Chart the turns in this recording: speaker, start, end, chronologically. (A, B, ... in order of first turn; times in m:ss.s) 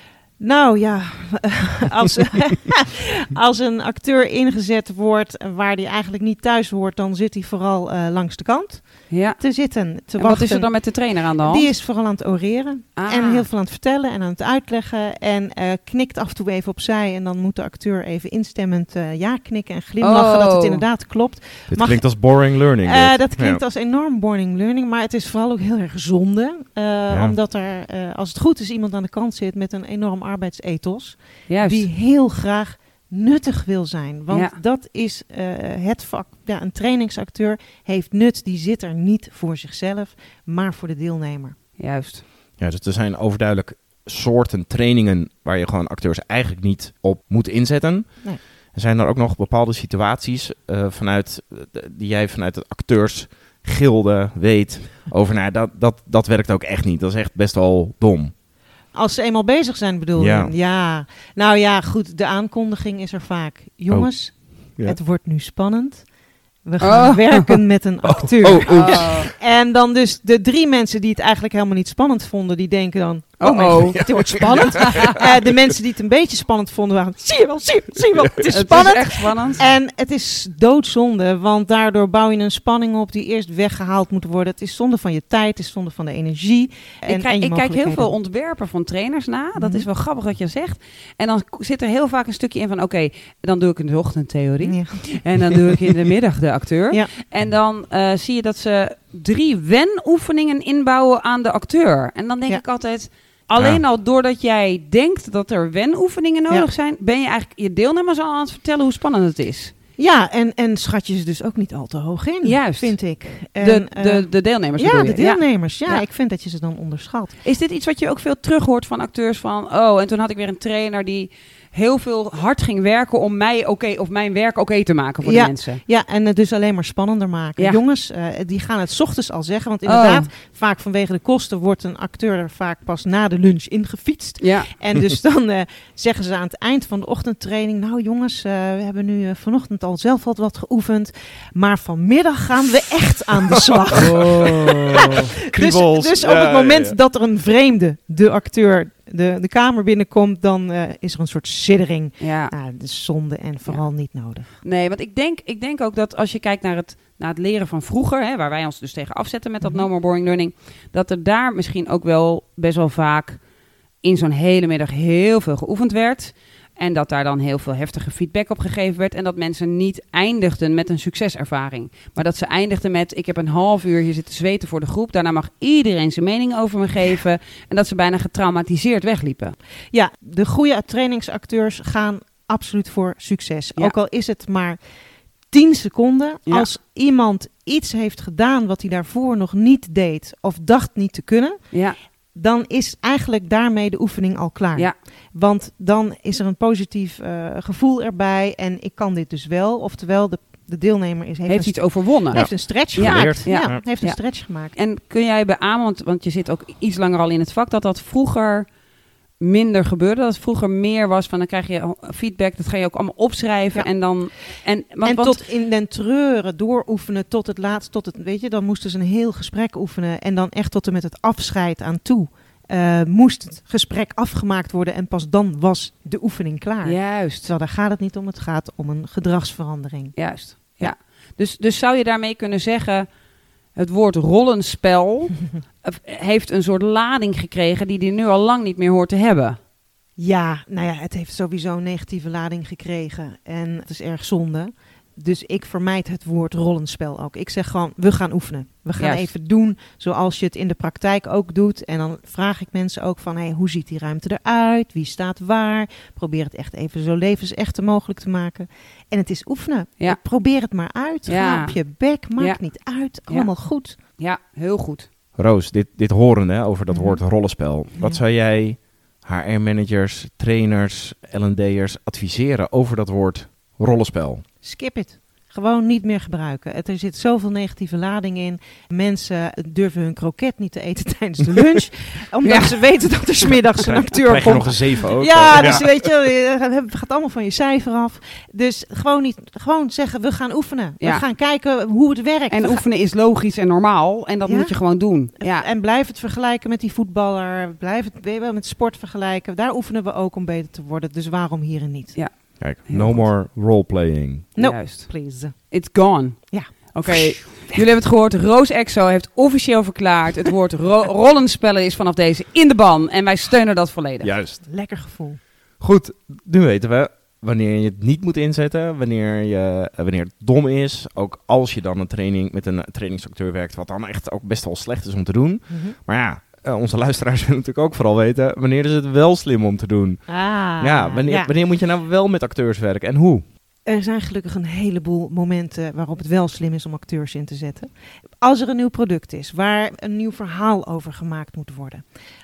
0:00.4-0:41.6 A
0:09.1-0:09.4 B
0:10.2-0:11.7 B
0:13.0-0:13.4 B
0:20.0-0:20.8 B
0:21.7-0:23.6 C
0:27.1-0:27.4 C
0:31.5-0:31.9 B
0:41.8-0:42.2 B
0:42.6-0:58.3 C
0:58.9-1:06.1 A
1:00.2-1:00.5 C
1:06.6-1:28.1 A
1:06.8-1:07.6 B
1:08.0-1:09.3 C
1:08.6-1:09.3 B
1:13.4-1:15.1 B
1:13.7-1:15.7 C
1:18.4-1:19.6 B
1:27.0-1:49.7 B
1:29.6-1:29.8 A
1:34.6-1:35.2 A
1:43.6-1:43.8 C
1:50.0-1:57.4 A
1:52.4-1:53.0 B
1:53.6-1:56.0 B
1:57.4-2:05.8 B
2:05.2-2:34.5 A
2:09.8-2:10.3 B
2:14.4-2:14.7 B
2:24.0-2:27.0 C
2:32.2-2:32.5 B
2:34.6-2:43.4 B
2:44.0-2:59.6 B
2:59.9-3:04.8 A
3:05.5-3:11.6 A
3:11.7-3:12.0 B
3:12.3-3:24.7 A
3:21.5-3:28.7 B
3:22.3-3:23.8 C
3:29.4-3:35.4 B
3:35.0-3:50.1 A
3:46.8-3:47.5 B
3:50.2-3:53.1 B
3:53.7-3:59.6 B
4:00.2-4:24.0 A
4:09.0-4:09.3 B
4:21.3-4:21.8 B
4:24.1-4:25.1 B
4:25.4-4:34.4 C
4:26.9-4:27.2 A
4:34.6-4:52.8 A
4:42.4-4:42.8 B
4:43.8-4:45.9 C
4:52.5-4:55.7 B
4:54.4-4:54.7 A
4:55.4-5:02.2 A
5:02.6-5:04.5 C
5:02.8-5:03.3 B
5:04.6-5:05.5 A
5:04.6-5:05.1 B
5:05.7-5:14.3 B
5:06.5-5:07.5 A
5:14.2-5:14.6 C
5:14.7-5:15.4 A
5:15.8-5:33.4 C
5:25.7-5:26.0 A
5:30.3-5:31.5 A
5:33.8-5:37.9 A
5:38.4-5:42.0 A